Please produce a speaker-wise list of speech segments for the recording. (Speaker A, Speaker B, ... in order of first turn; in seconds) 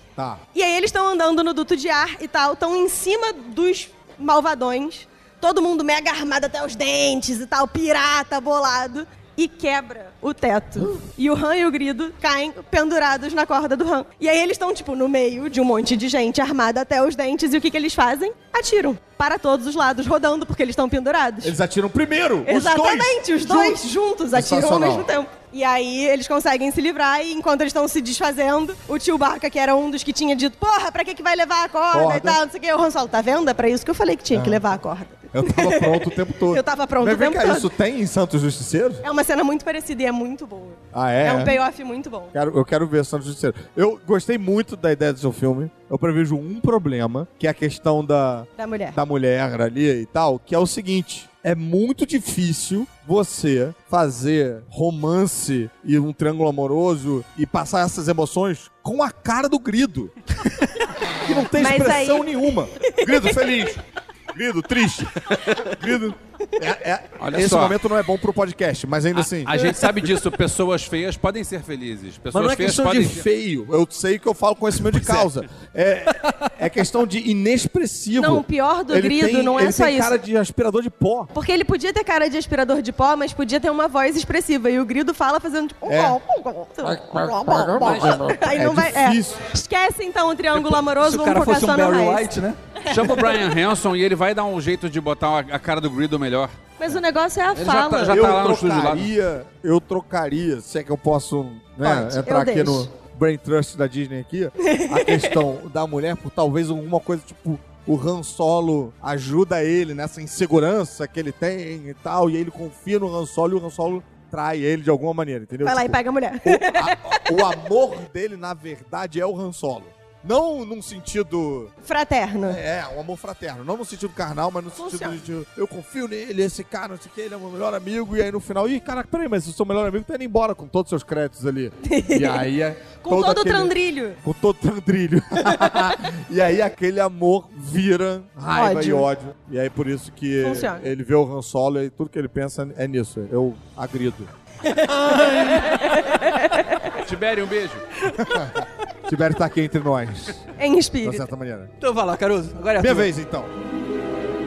Speaker A: 0.5-21.6, 22.5-37.7, 39.0-42.3, 48.6-49.0, 61.5-63.4, 78.2-80.1, 81.3-92.3, 92.8-93.4, 96.8-98.2, 101.8-102.9, 104.6-105.4, 115.6-117.3, 121.8-122.6, 124.8-125.2, 131.8-132.5, 133.0-134.2, 138.5-139.1, 140.4-140.9, 144.7-146.9, 150.6-151.3
Speaker B: 21.4-25.1, 31.9-32.4, 34.3-34.6, 35.3-39.0, 40.9-41.6, 42.3-60.1, 61.1-70.1, 72.3-81.3, 85.9-86.2, 86.8-89.4, 98.0-121.7, 122.5-144.3, 148.2-150.4, 151.0-151.7, 152.8-153.5
Speaker C: 67.2-67.8, 69.1-73.2, 74.9-75.3, 87.8-88.2, 92.9-96.5, 97.5-99.1, 146.9-147.8
Speaker D: 90.5-92.6, 144.9-146.0, 151.8-153.1